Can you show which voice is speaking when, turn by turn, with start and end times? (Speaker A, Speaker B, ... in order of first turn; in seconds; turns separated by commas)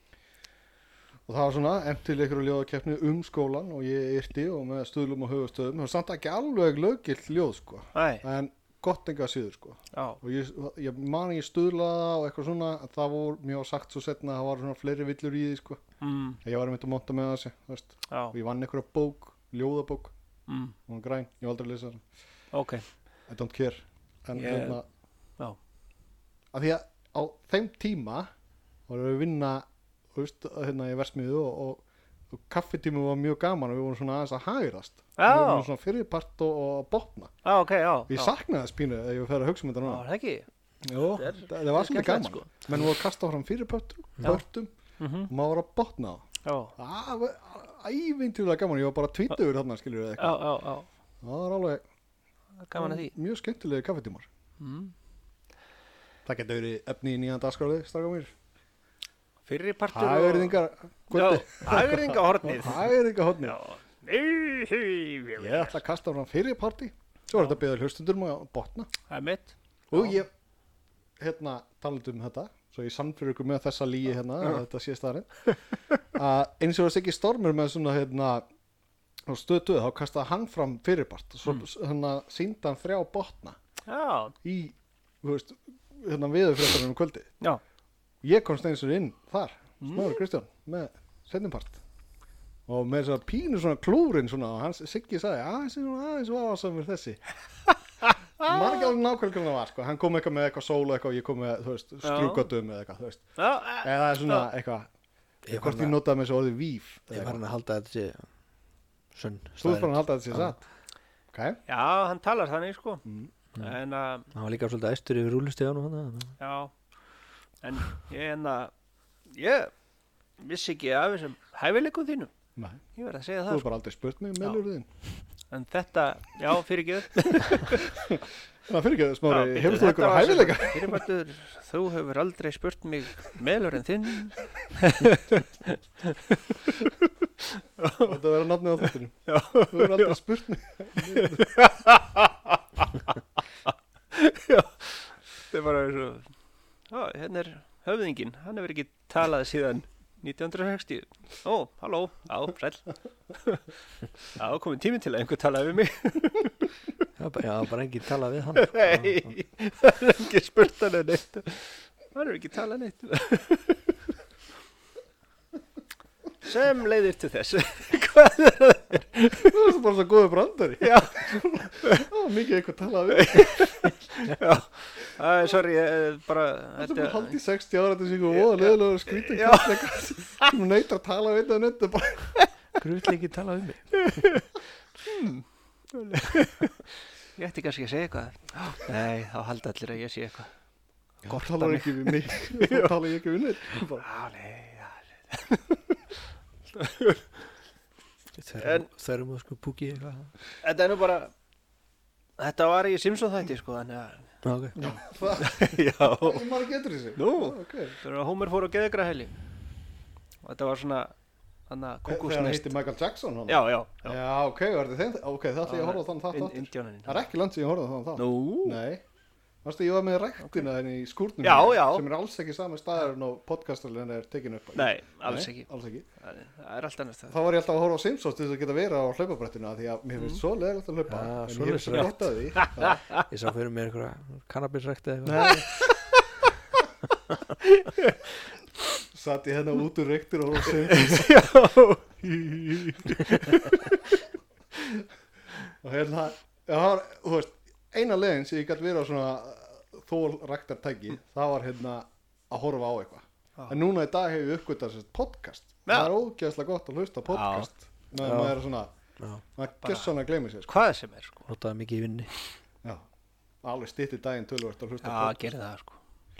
Speaker A: 1.3-15.8, Speaker B: 7.9-8.2, Speaker B: 9.9-10.2, Speaker B: 16.0-16.4, Speaker A: 16.4-20.1, Speaker B: 18.1-18.3, Speaker B: 20.5-20.7, Speaker A: 20.9-22.0, Speaker B: 22.5-22.8, Speaker A: 23.3-24.8, Speaker B: 24.3-24.8, Speaker A: 26.5-28.3, Speaker A: 28.9-37.3, Speaker B: 35.2-35.7, Speaker B: 37.4-38.3, Speaker A: 38.1-40.0, Speaker B: 39.8-40.5, Speaker A: 40.8-44.7, Speaker B: 41.1-42.9, Speaker B: 45.0-45.3, Speaker A: 45.3-46.2, Speaker B: 46.4-46.7, Speaker A: 46.8-50.5, Speaker B: 50.2-50.9, Speaker A: 51.2-51.8, Speaker B: 52.6-53.1, Speaker A: 52.8-54.3, Speaker B: 54.6-54.9, Speaker A: 56.2-58.3, Speaker B: 59.5-60.6, Speaker A: 59.9-63.6, Speaker B: 61.1-62.9, Speaker B: 63.4-65.8, Speaker A: 65.4-68.9, Speaker B: 69.1-70.2, Speaker A: 69.9-70.3, Speaker A: 71.2-75.5, Speaker A: 76.1-78.4, Speaker A: 79.3-83.6, Speaker B: 83.9-84.3, Speaker A: 84.4-87.3, Speaker A: 88.2-91.8, Speaker B: 89.8-90.2, Speaker A: 92.7-97.2, Speaker B: 98.0-98.5, Speaker A: 98.4-104.9, Speaker B: 102.0-102.5, Speaker B: 103.4-104.5, Speaker C: 105.5-106.0, Speaker A: 105.5-107.4, Speaker C: 107.1-108.2, Speaker C: 109.1-110.5, Speaker A: 109.6-110.6, Speaker A: 111.3-111.6, Speaker B: 111.7-113.0, Speaker A: 113.0-113.3, Speaker B: 113.5-114.3, Speaker C: 114.3-116.3, Speaker B: 116.4-116.7, Speaker B: 117.6-118.7, Speaker B: 119.3-119.7, Speaker B: 120.4-122.3, Speaker A: 122.5-122.8, Speaker B: 122.9-123.7, Speaker A: 123.5-124.8, Speaker B: 125.5-127.8, Speaker A: 127.5-131.0, Speaker B: 129.3-138.1, Speaker A: 138.0-141.6, Speaker B: 139.3-140.2, Speaker B: 141.1-143.1, Speaker B: 144.1-146.3, Speaker B: 146.9-153.6, Speaker B: 154.3-156.7, Speaker C: 157.2-159.3, Speaker B: 158.5-163.8, Speaker B: 166.4-169.5, Speaker A: 169.4-173.9, Speaker B: 170.8-172.0, Speaker B: 173.1-177.3, Speaker A: 176.8-182.4, Speaker B: 178.3-180.5, Speaker C: 182.8-184.1, Speaker B: 183.9-184.5, Speaker B: 185.0-190.5, Speaker B: 191.2-192.9, Speaker A: 191.2-194.1, Speaker B: 194.0-195.6, Speaker B: 196.7-197.3, Speaker C: 198.3-200.3, Speaker B: 198.6-198.9, Speaker B: 200.6-201.3, Speaker B: 202.4-206.4, Speaker C: 204.4-204.8, Speaker A: 204.8-208.0, Speaker B: 207.2-209.3, Speaker B: 210.4-211.1, Speaker B: 211.7-212.7, Speaker A: 212.1-219.0, Speaker B: 213.5-214.2, Speaker B: 215.6-217.3, Speaker B: 218.2-218.8, Speaker A: 219.6-226.0, Speaker B: 221.4-222.1, Speaker B: 224.7-225.7, Speaker B: 226.2-227.4, Speaker A: 227.3-233.0, Speaker C: 231.1-232.3, Speaker B: 231.9-233.2, Speaker C: 233.2-235.6, Speaker A: 235.2-235.8, Speaker B: 237.6-238.2, Speaker A: 239.1-241.3, Speaker B: 240.9-244.0, Speaker A: 242.8-243.1, Speaker A: 245.8-258.9, Speaker B: 255.9-256.1, Speaker B: 257.3-257.7, Speaker C: 258.2-258.6, Speaker A: 259.6-260.7, Speaker B: 259.8-260.1, Speaker B: 260.6-261.5, Speaker C: 261.5-262.3, Speaker A: 263.6-265.4, Speaker B: 265.0-266.0